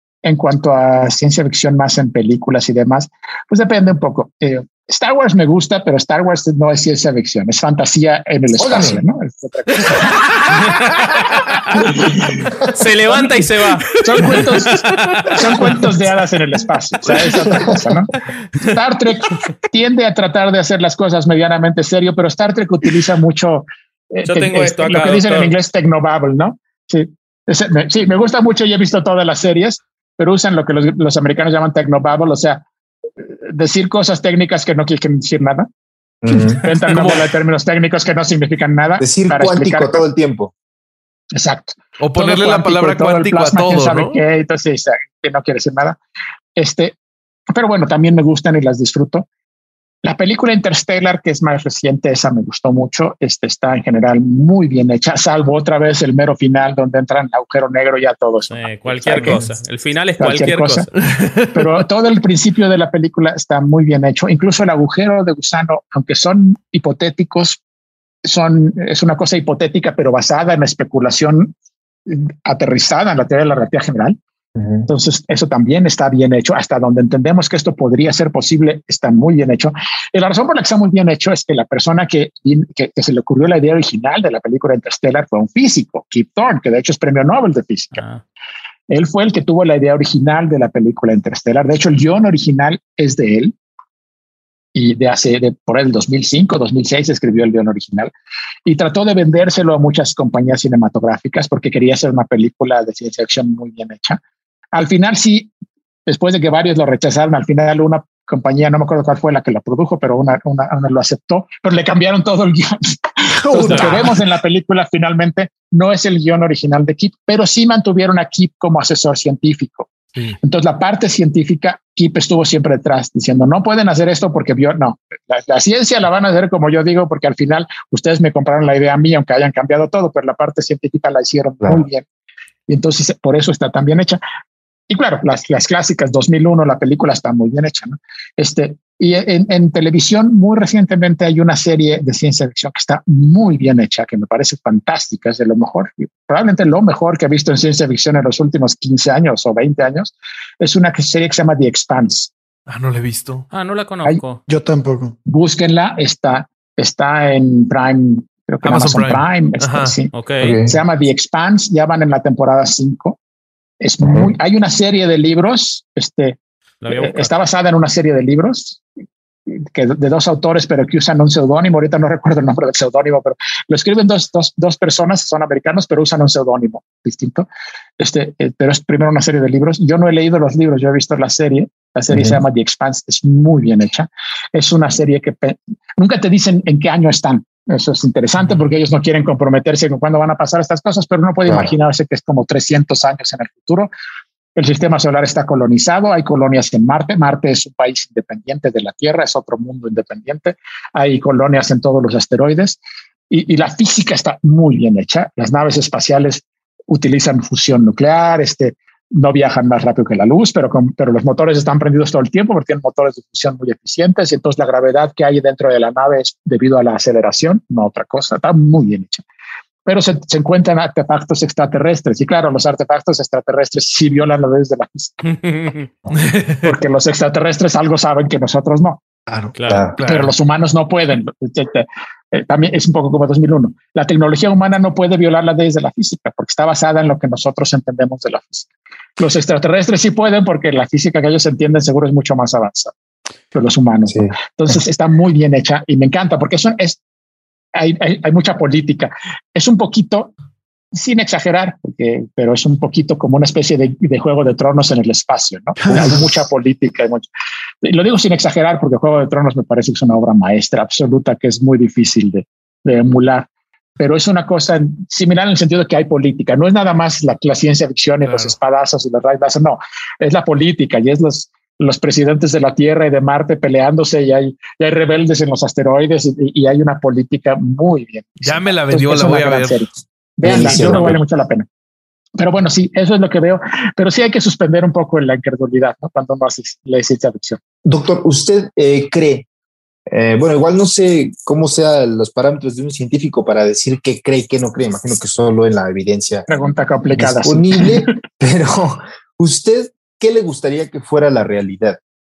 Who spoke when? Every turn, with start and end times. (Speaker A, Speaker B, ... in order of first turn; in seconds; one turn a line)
Speaker A: 0.2-10.1
Speaker B: 8.6-9.0
Speaker C: 12.7-15.4
Speaker A: 14.0-14.8
Speaker A: 15.3-18.1
Speaker B: 17.5-17.8
Speaker A: 18.6-32.6
Speaker C: 24.3-25.5
Speaker A: 33.2-35.7
Speaker B: 36.2-36.6
Speaker A: 36.5-40.0
Speaker B: 39.0-40.5
Speaker A: 41.4-46.0
Speaker D: 42.0-44.2
Speaker A: 46.6-47.0
Speaker A: 47.5-49.3
Speaker A: 50.0-59.4
Speaker C: 58.5-60.9
Speaker A: 60.2-60.9
Speaker D: 61.0-61.6
Speaker A: 61.5-67.6
Speaker A: 68.2-71.5
Speaker A: 72.1-74.2
Speaker B: 74.6-74.9
Speaker A: 74.9-88.0
Speaker C: 87.9-88.2
Speaker A: 88.9-93.5
Speaker A: 94.8-98.1
Speaker A: 98.7-104.2
Speaker A: 104.7-105.5
Speaker A: 106.1-119.9
Speaker E: 113.4-114.2
Speaker C: 113.7-114.0
Speaker A: 120.4-132.0
Speaker A: 132.7-134.2
Speaker A: 134.9-152.3
Speaker D: 152.7-153.5
Speaker C: 153.5-154.4
Speaker E: 154.5-155.2
Speaker A: 155.3-163.2
Speaker D: 158.6-159.9
Speaker C: 160.1-160.6
Speaker B: 160.4-160.8
Speaker A: 163.8-166.4
Speaker B: 164.0-164.3
Speaker C: 166.8-167.3
Speaker A: 166.9-168.8
Speaker A: 169.5-177.5
Speaker A: 178.0-193.9
Speaker B: 182.1-182.4
Speaker A: 194.6-202.8
Speaker A: 203.3-219.2
Speaker A: 219.9-225.3
Speaker C: 225.3-225.9
Speaker D: 226.1-226.7
Speaker A: 226.6-229.0
Speaker E: 229.3-229.5
Speaker C: 229.6-229.9
Speaker B: 229.7-230.0
Speaker D: 230.0-230.3
Speaker A: 230.0-238.7
Speaker A: 239.2-242.9
Speaker A: 243.5-247.0
Speaker B: 244.1-244.3
Speaker A: 247.8-250.3
Speaker A: 250.9-257.3
Speaker E: 255.8-256.2
Speaker A: 257.8-263.5
Speaker A: 264.0-281.7
Speaker D: 268.2-268.6
Speaker D: 278.4-279.9
Speaker B: 280.4-281.2
Speaker D: 280.5-281.1
Speaker A: 282.4-287.6
Speaker B: 287.9-289.5
Speaker B: 290.1-296.5
Speaker A: 296.5-298.1
Speaker B: 297.1-302.0